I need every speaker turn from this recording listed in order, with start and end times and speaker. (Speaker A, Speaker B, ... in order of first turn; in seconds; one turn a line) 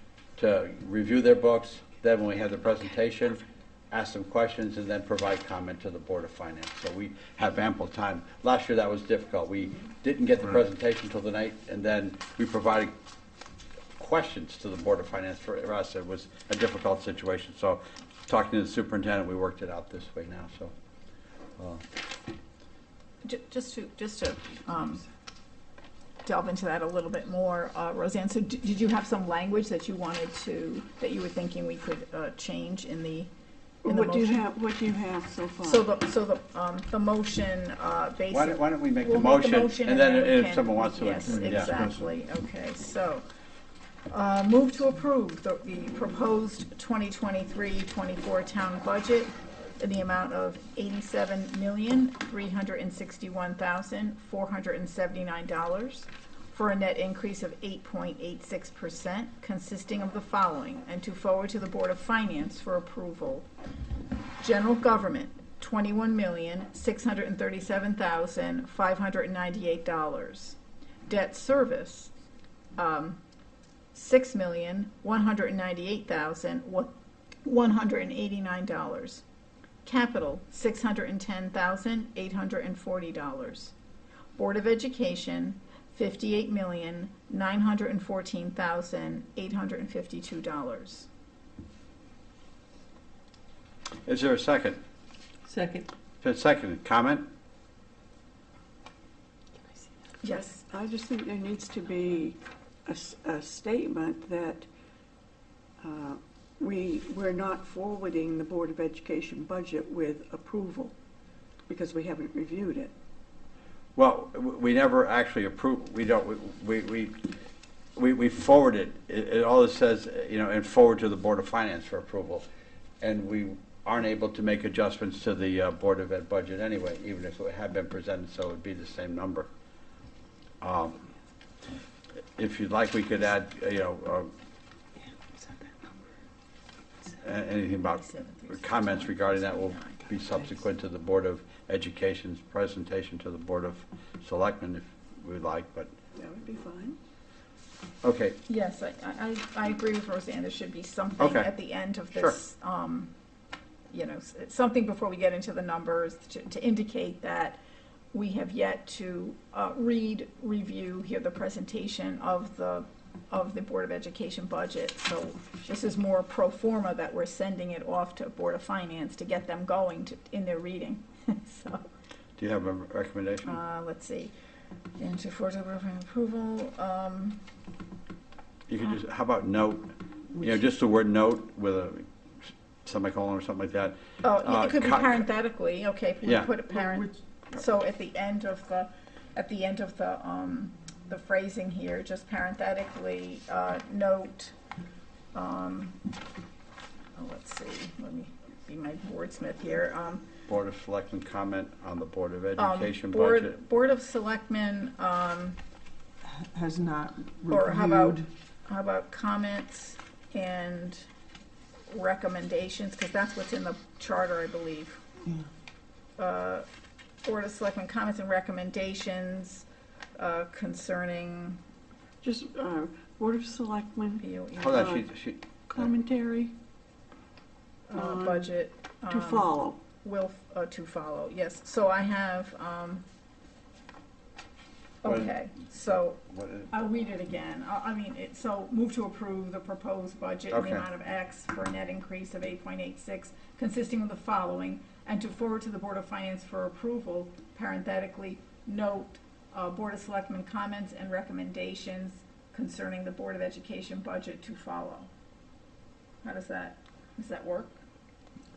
Speaker A: 0.4-12.9
Speaker A: 14.0-20.7
Speaker A: 21.6-21.8
Speaker B: 23.2-25.0
Speaker B: 26.2-33.3
Speaker C: 33.8-35.9
Speaker B: 33.8-34.5
Speaker B: 35.6-43.2
Speaker A: 38.3-41.9
Speaker B: 44.1-63.5
Speaker B: 64.4-72.1
Speaker B: 72.8-73.2
Speaker B: 73.9-76.9
Speaker B: 77.4-79.2
Speaker B: 79.8-83.7
Speaker B: 84.4-91.1
Speaker A: 94.0-94.8
Speaker D: 95.5-95.9
Speaker A: 96.2-97.2
Speaker B: 100.2-100.6
Speaker C: 100.3-104.7
Speaker C: 105.8-110.9
Speaker C: 111.7-112.9
Speaker A: 114.0-117.3
Speaker A: 118.0-122.4
Speaker A: 123.0-129.5
Speaker A: 130.6-131.0
Speaker A: 132.4-134.3
Speaker A: 137.2-145.9
Speaker B: 137.8-140.0
Speaker C: 146.2-147.0
Speaker A: 148.0-148.4
Speaker B: 148.5-153.1
Speaker A: 151.2-151.5
Speaker B: 153.9-157.6
Speaker B: 158.1-171.8
Speaker A: 172.4-173.6
Speaker B: 173.4-174.3
Speaker B: 175.0-177.4
Speaker A: 178.7-185.2
Speaker B: 184.2-194.5
Speaker A: 186.2-186.5
Speaker D: 186.8-187.1
Speaker B: 195.3-196.0
Speaker B: 197.2-200.2
Speaker A: 200.5-203.5
Speaker B: 202.6-205.6
Speaker D: 206.3-208.3
Speaker B: 207.5-211.1
Speaker B: 211.9-215.0
Speaker B: 216.2-216.7
Speaker B: 217.2-221.6
Speaker C: 222.2-224.2
Speaker B: 224.2-224.9
Speaker A: 224.6-225.9
Speaker C: 224.8-225.0
Speaker C: 225.7-226.5
Speaker B: 227.9-233.0
Speaker C: 227.9-228.5
Speaker C: 229.1-229.8
Speaker B: 235.0-255.1
Speaker A: 235.1-235.3
Speaker A: 236.3-236.7
Speaker A: 240.5-240.8
Speaker B: 256.2-257.8